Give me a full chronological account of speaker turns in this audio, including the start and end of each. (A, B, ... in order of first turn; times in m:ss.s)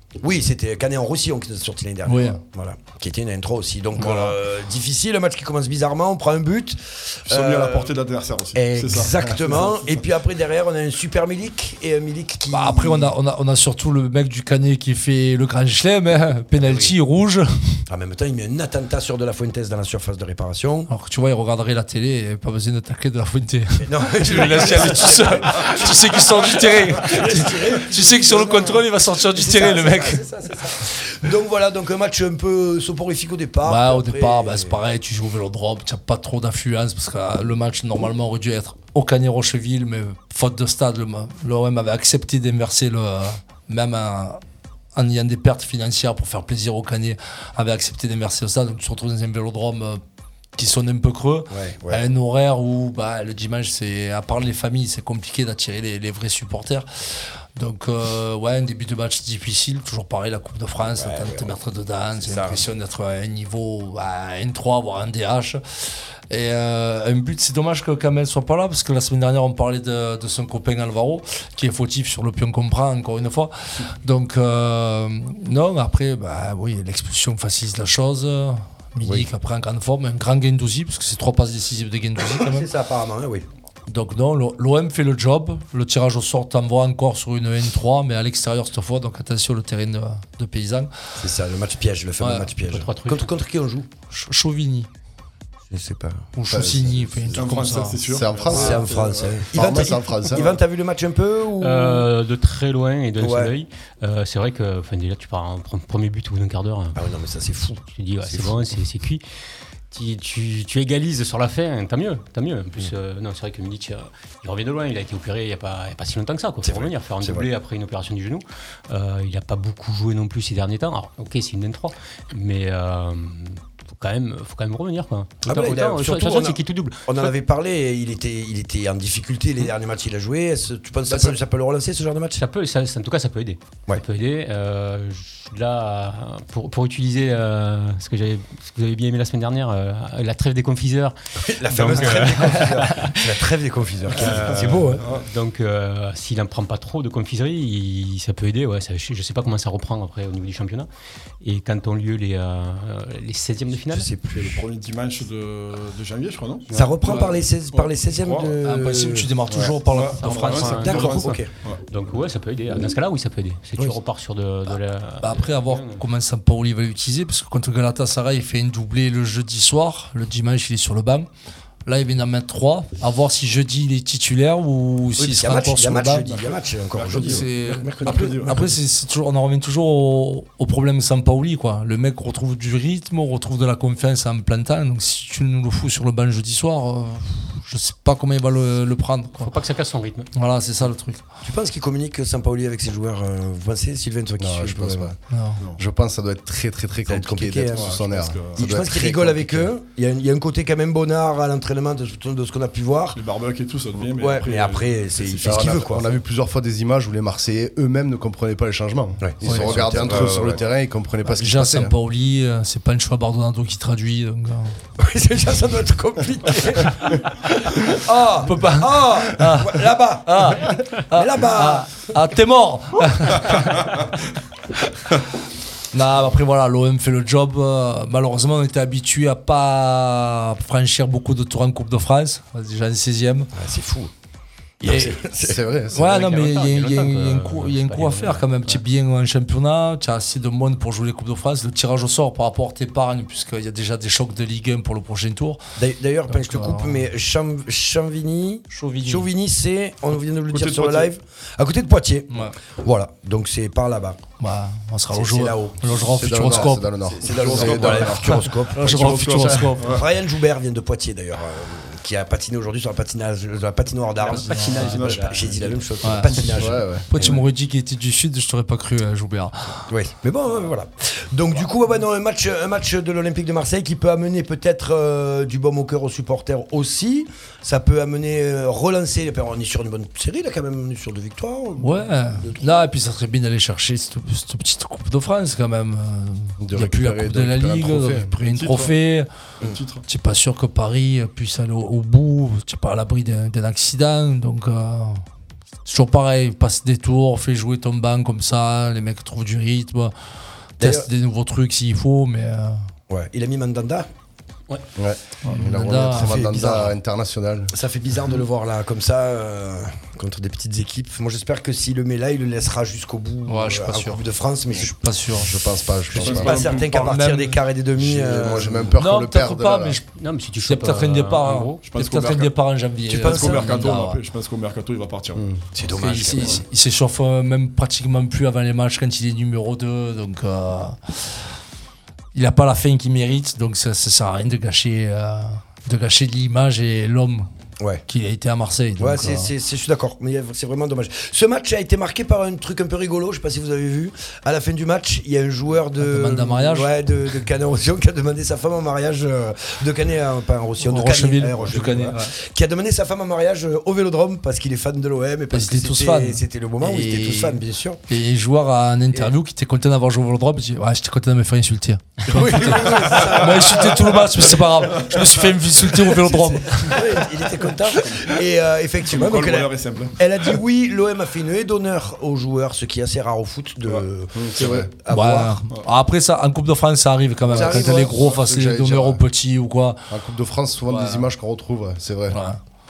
0:00.2-0:08.0 A
0:02.0-0:02.4 B
0:04.0-0:04.4 C
0:07.3-0:09.9 C
0:08.5-0:13.1 A
0:12.5-0:17.8 B
0:16.6-0:16.9 A
0:17.9-0:20.9 A
0:20.9-0:30.2 B
0:23.8-0:34.8 A
0:33.6-0:44.4 B
0:44.9-0:50.0 B
0:50.6-1:22.7 B
0:51.5-0:52.1 A
1:00.8-1:01.6 A
1:02.2-1:02.6 A
1:19.0-1:19.3 A
1:22.3-1:23.4 A
1:23.9-1:30.9 B
1:31.2-1:33.9 A
1:32.2-1:32.5 B
1:32.6-1:33.3 D
1:34.1-1:34.9 B
1:35.7-1:36.7 A
1:36.3-1:38.0 B
1:36.5-1:38.9 E
1:37.3-1:39.5 C
1:38.5-1:42.1 A
1:39.5-1:40.6 E
1:41.6-1:47.0 D
1:43.2-1:43.5 A
1:47.0-1:48.8 A
1:47.8-1:49.2 D
1:49.9-2:07.3 D
1:56.6-1:57.5 A
2:05.4-2:12.4 A
2:11.1-2:11.3 D
2:12.3-2:23.4 D
2:21.4-2:25.0 A
2:24.2-2:30.9 D
2:24.2-2:25.3 C
2:31.4-2:34.1 D
2:33.9-2:34.6 A
2:34.2-2:38.6 C
2:36.7-2:39.7 A
2:37.0-2:37.4 B
2:38.6-2:41.3 B
2:39.5-2:41.8 C
2:40.3-2:41.3 D
2:40.7-2:41.5 A
2:41.8-2:46.0 D
2:44.7-2:51.3 B
2:51.8-2:56.2 B
2:55.2-2:58.5 A
2:56.2-2:58.7 C
2:57.2-3:09.5 B
3:09.4-3:10.3 D
3:10.3-3:11.2 B
3:11.4-3:15.1 A
3:14.4-3:15.2 E
3:15.3-3:15.6 B
3:15.7-3:19.7 E
3:17.0-3:18.0 A
3:17.7-3:18.7 C
3:18.6-3:23.2 A
3:23.1-3:25.9 C
3:24.2-3:26.1 A
3:25.4-3:31.9 E
3:29.2-3:30.6 A
3:29.4-3:30.0 B
3:29.9-3:30.6 C
3:31.2-3:34.7 B
3:35.0-3:42.1 A
3:37.6-3:44.1 B
3:45.9-3:53.5 B
3:53.5-3:54.1 A
3:54.8-3:55.7 A
3:54.8-3:55.2 B
3:55.4-3:56.2 E
3:55.9-4:05.6 B
3:55.9-3:58.8 D
4:05.8-4:14.2 A
4:06.3-4:07.0 B
4:08.7-4:09.3 B
4:10.5-4:11.1 C
4:12.3-4:12.5 B
4:14.4-4:16.9 B
4:15.1-4:27.4 A
4:16.0-4:18.2 E
4:17.2-4:20.0 C
4:18.7-4:20.0 B
4:24.2-4:26.2 C
4:24.3-4:25.1 B
4:26.0-4:26.6 B
4:26.5-4:27.1 E
4:27.1-4:29.9 B
4:29.9-4:42.8 A
4:41.8-4:49.3 B
4:46.6-4:48.3 E
4:48.4-4:48.9 C
4:49.6-4:50.0 C
4:50.1-4:55.2 B
4:55.8-5:00.1 B
5:00.8-5:02.8 B
5:00.8-5:01.1 A
5:03.1-5:04.1 A
5:05.0-5:07.7 E
5:05.6-5:06.6 B
5:05.9-5:06.9 A
5:07.7-5:14.9 A
5:13.5-5:15.6 B
5:15.4-5:16.8 E
5:16.1-5:18.9 A
5:16.1-5:17.2 C
5:16.8-5:17.6 B
5:17.9-5:20.0 E
5:19.0-5:20.0 B
5:20.1-5:21.8 D
5:20.6-5:24.2 B
5:21.8-5:22.6 C
5:23.1-5:23.8 A
5:23.1-5:25.4 C
5:25.4-5:25.6 E
5:25.7-5:26.6 A
5:25.9-5:31.4 B
5:26.4-5:26.6 C
5:32.3-5:37.5 B
5:38.1-5:39.5 B
5:39.0-5:58.0 A
5:46.0-5:46.9 B
5:50.8-5:52.3 B
5:51.6-5:52.1 C
5:55.5-6:07.0 B
6:02.3-6:03.9 A
6:02.4-6:05.5 C
6:06.2-6:15.6 A
6:08.0-6:08.4 C
6:09.0-6:10.6 C
6:13.8-6:14.9 C
6:14.5-6:14.9 E
6:15.1-6:20.1 B
6:17.5-6:18.3 A
6:17.5-6:19.2 E
6:20.1-6:22.4 E
6:20.8-6:21.3 B
6:22.3-6:22.6 B